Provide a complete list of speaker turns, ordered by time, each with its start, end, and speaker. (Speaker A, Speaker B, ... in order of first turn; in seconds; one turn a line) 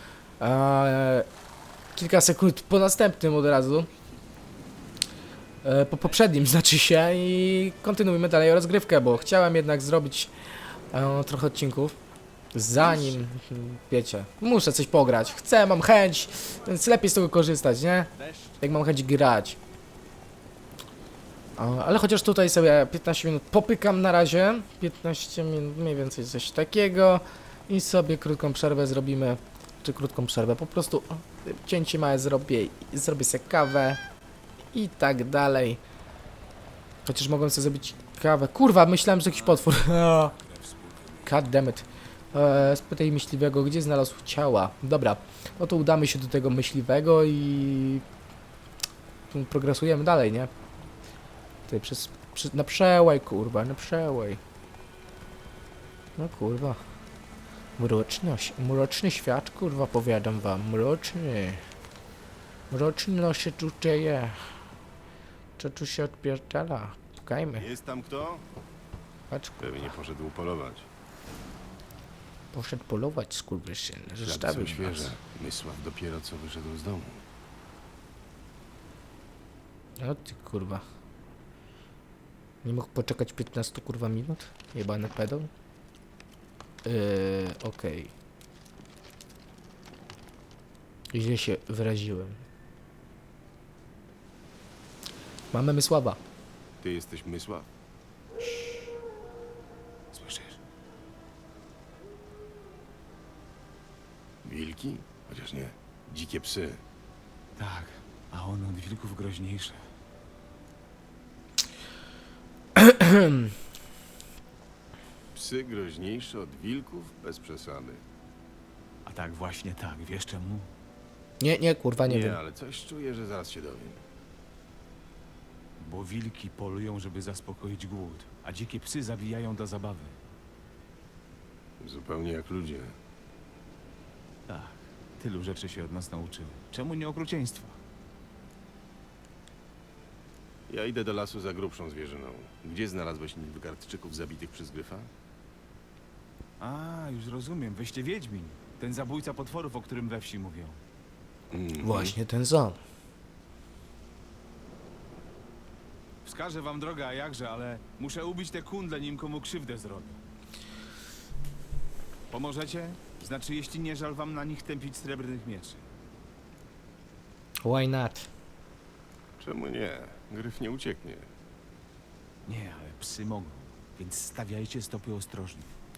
Speaker A: 0.4-1.3
Speaker A: 1.9-3.9
Speaker A: 5.6-10.3
Speaker A: 10.9-11.9
Speaker A: 12.5-19.6
Speaker B: 18.2-18.6
Speaker A: 21.6-34.0
Speaker A: 34.7-35.8
Speaker A: 37.0-40.3
Speaker B: 39.2-41.4
Speaker A: 41.2-48.0
Speaker A: 49.3-50.5
Speaker A: 51.7-54.4
Speaker A: 56.2-56.8
Speaker A: 57.8-61.6
Speaker A: 62.7-64.5
Speaker A: 65.6-67.7
Speaker C: 67.6-68.4
Speaker A: 69.3-69.9
Speaker C: 69.6-70.9
Speaker A: 72.5-75.2
Speaker C: 74.2-77.2
Speaker A: 80.0-80.8
Speaker A: 82.6-85.5
Speaker A: 86.8-88.1
Speaker A: 91.1-92.4
Speaker A: 95.5-96.2
Speaker C: 96.8-97.7
Speaker B: 100.1-100.6
Speaker C: 104.4-106.8
Speaker B: 107.6-109.8
Speaker A: 112.8-113.5
Speaker C: 115.3-118.0
Speaker B: 119.0-120.7
Speaker A: 121.4-122.4
Speaker C: 122.0-124.0
Speaker B: 125.8-130.1
Speaker C: 131.8-132.9
Speaker B: 134.5-137.8
Speaker C: 140.7-145.1
Speaker B: 146.6-150.8
Speaker C: 151.5-152.2
Speaker A: 151.8-152.8
Speaker B: 156.2-160.2
Speaker B: 162.3-165.8
Speaker A: 167.6-168.3
Speaker C: 169.4-171.3
Speaker B: 172.5-175.7